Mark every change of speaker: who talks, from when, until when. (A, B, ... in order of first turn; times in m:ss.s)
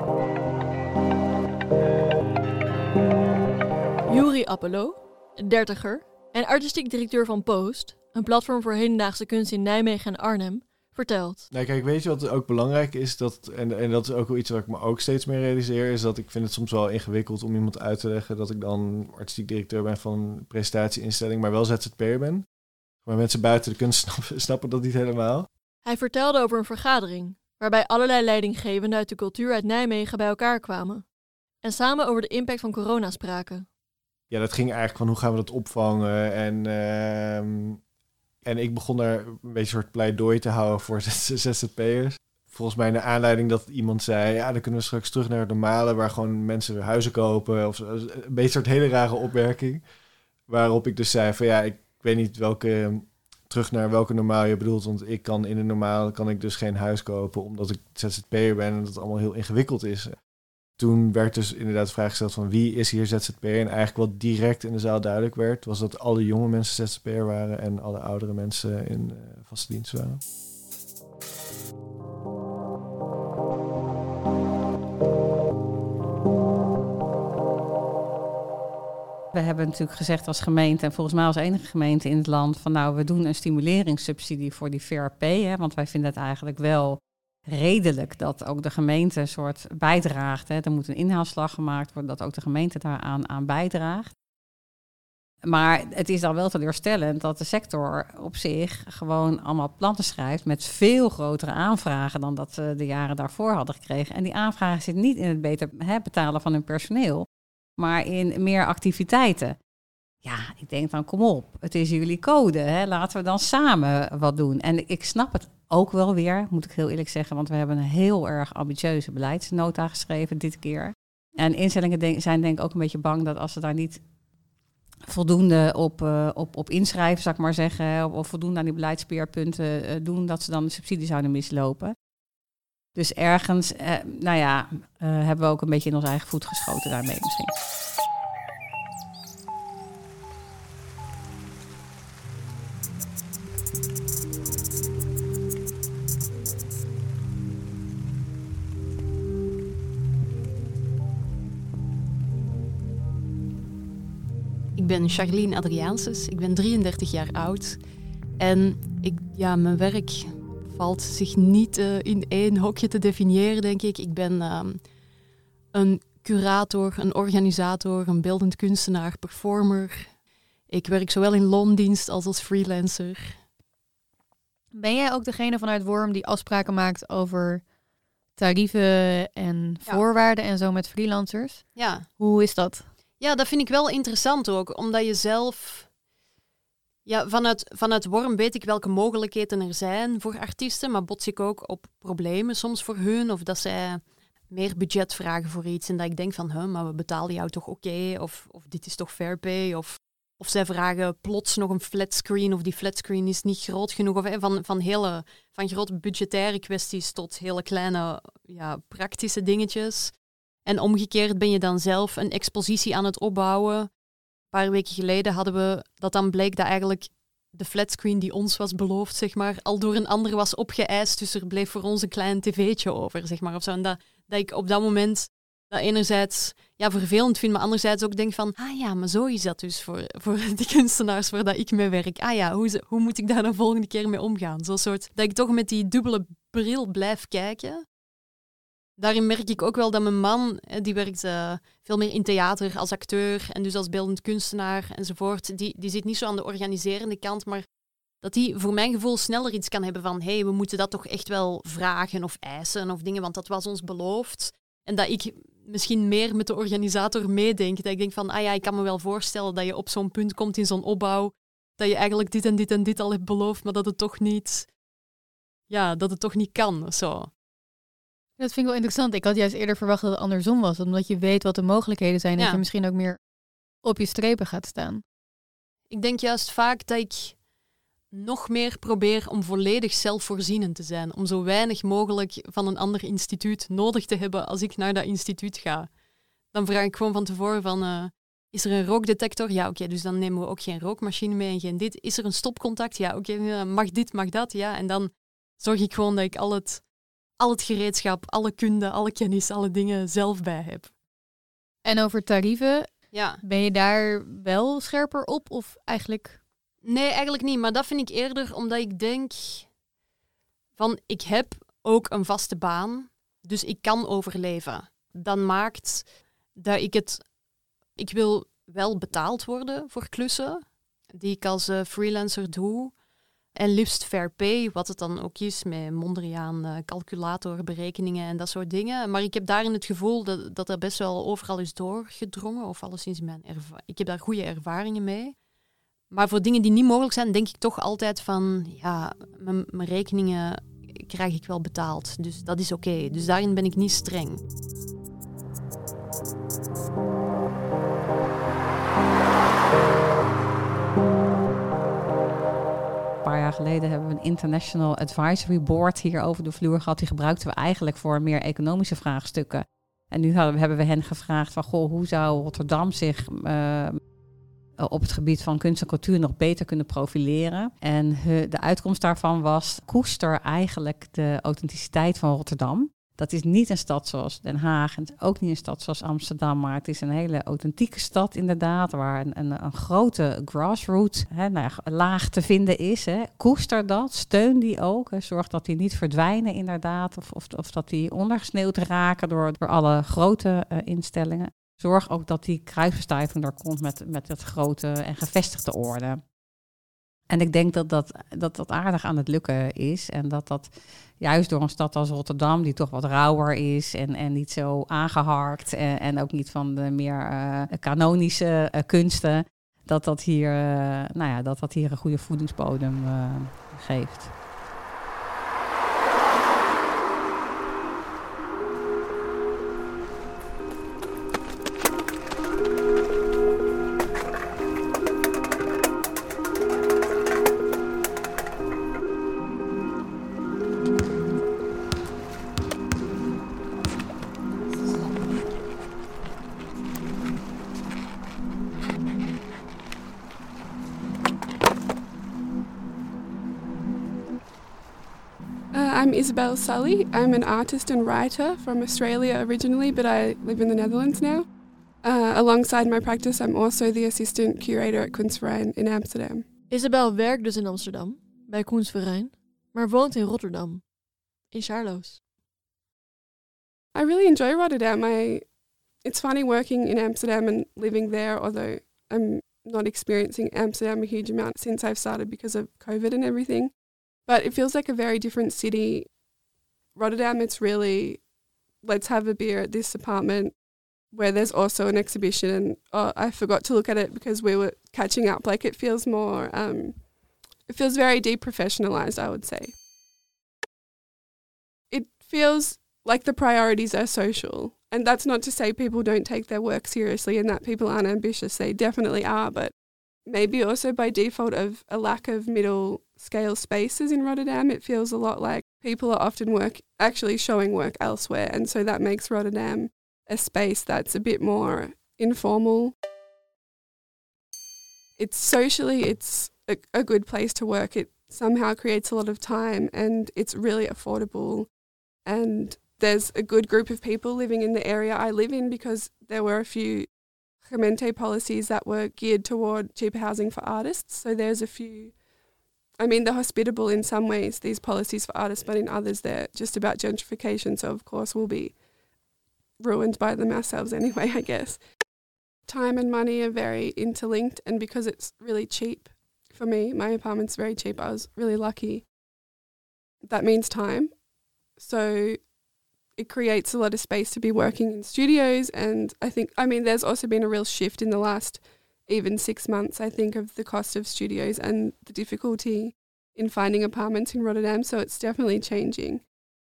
0:04.1-0:11.5 A
0:11.5-0:25.5 B
0:25.8-0:33.7 A
0:34.3-0:37.8 B
0:38.4-0:49.9 B
0:50.5-1:10.2 B
1:19.3-1:34.1 C
1:35.5-1:47.3 C
1:47.8-1:49.6 C
1:50.2-2:04.0 C
2:05.1-2:11.9 C
2:13.0-2:17.5 C
2:34.8-2:37.8 D
2:38.4-2:44.9 D
2:45.7-2:53.5 D
2:54.7-2:57.7 E
2:58.3-3:01.6 E
3:01.7-3:02.1 D
3:02.2-3:02.9 E
3:03.2-3:05.9 D
3:07.0-3:34.0 D
3:34.5-3:57.9 D
3:59.0-4:07.7 D
4:08.2-4:24.8 D
4:25.7-4:27.3 D
4:28.4-4:33.2 E
4:32.4-4:32.6 D
4:33.8-4:35.0 E
4:35.9-4:37.4 D
4:38.1-5:01.0 D
5:01.8-5:06.4 E
5:03.1-5:03.4 D
5:06.8-5:09.8 D
5:10.8-5:17.4 D
5:18.0-5:23.0 D
5:23.5-5:35.4 D
5:36.1-5:44.4 D
5:53.2-6:04.0 C
6:04.8-6:36.3 C
6:37.3-6:54.3 C
7:25.7-7:31.5 F
7:32.0-7:36.5 F
7:36.7-7:42.2 A
7:43.9-7:56.2 F
7:56.9-7:58.3 F
7:58.8-8:07.1 F
8:07.6-8:09.7 F
8:11.9-8:32.9 F
8:35.2-8:41.7 F
8:42.2-8:47.1 F
8:47.6-8:52.2 F
8:53.0-8:58.8 F
8:59.8-9:01.9 F
9:02.7-9:09.1 F
9:10.2-9:11.2 F
9:11.8-9:12.5 F
9:13.2-9:26.3 F